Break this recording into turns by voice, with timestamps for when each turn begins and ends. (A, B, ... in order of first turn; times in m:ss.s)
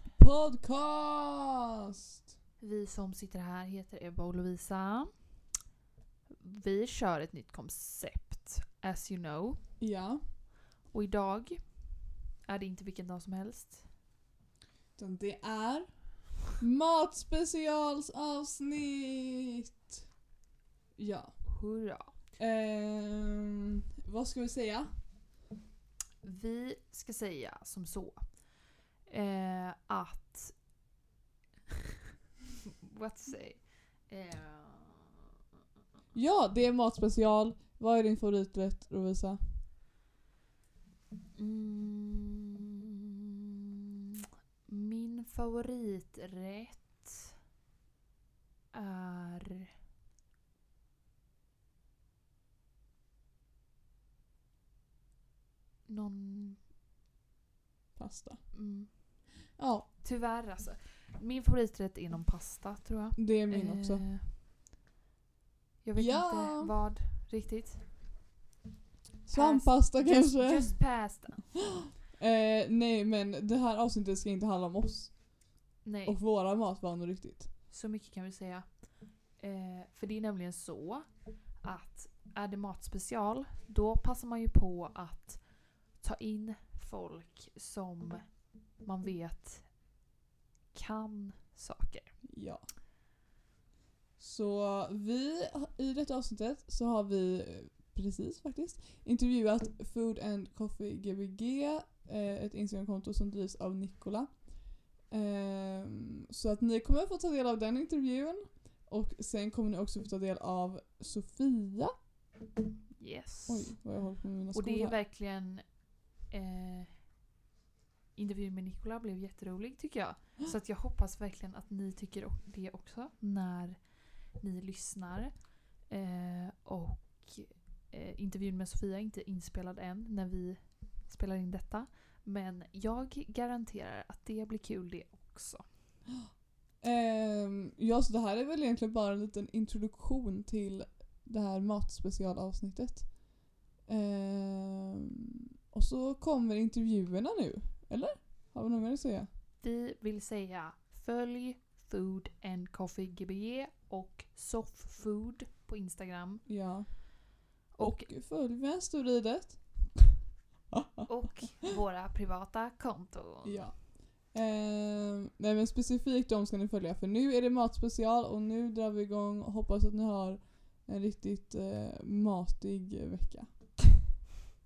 0:00.2-0:02.3 A
0:02.6-0:05.4 B
0:06.3-0:09.6 B
0:09.8-0:10.3 A
0:10.8-0:13.9 B
0:15.0-0:20.0 A
0:21.0-0:21.6 A
0:21.5-0:22.2 B
0:22.4-0:25.0 A
0:26.2-0:30.7 B
0:32.8-0:35.2 B
0:36.1-0:39.6 A
0:41.4-0:43.2 B
0:44.6-0:47.3 B
0:48.7-0:49.7 B
0:55.9-0:56.6 B
0:58.0-0:58.6 A
0:58.5-1:04.3 B
0:59.6-0:59.9 A
1:03.2-1:04.1 A
1:05.8-1:07.9 B
1:06.0-1:06.7 A
1:09.3-1:10.8 A
1:09.3-1:11.7 B
1:12.2-1:17.5 A
1:15.8-1:16.2 B
1:17.7-1:30.0 B
1:30.7-1:32.2 B
1:32.2-1:32.7 A
1:34.2-1:51.9 A
1:53.0-1:57.2 B
1:53.5-1:55.0 A
1:58.2-2:15.7 B
2:16.1-2:25.2 A
2:25.7-2:29.3 A
2:29.6-2:37.0 B
2:36.5-2:40.2 A
2:37.7-2:38.1 B
2:40.7-2:41.1 A
2:41.1-2:43.7 B
2:43.4-2:54.0 A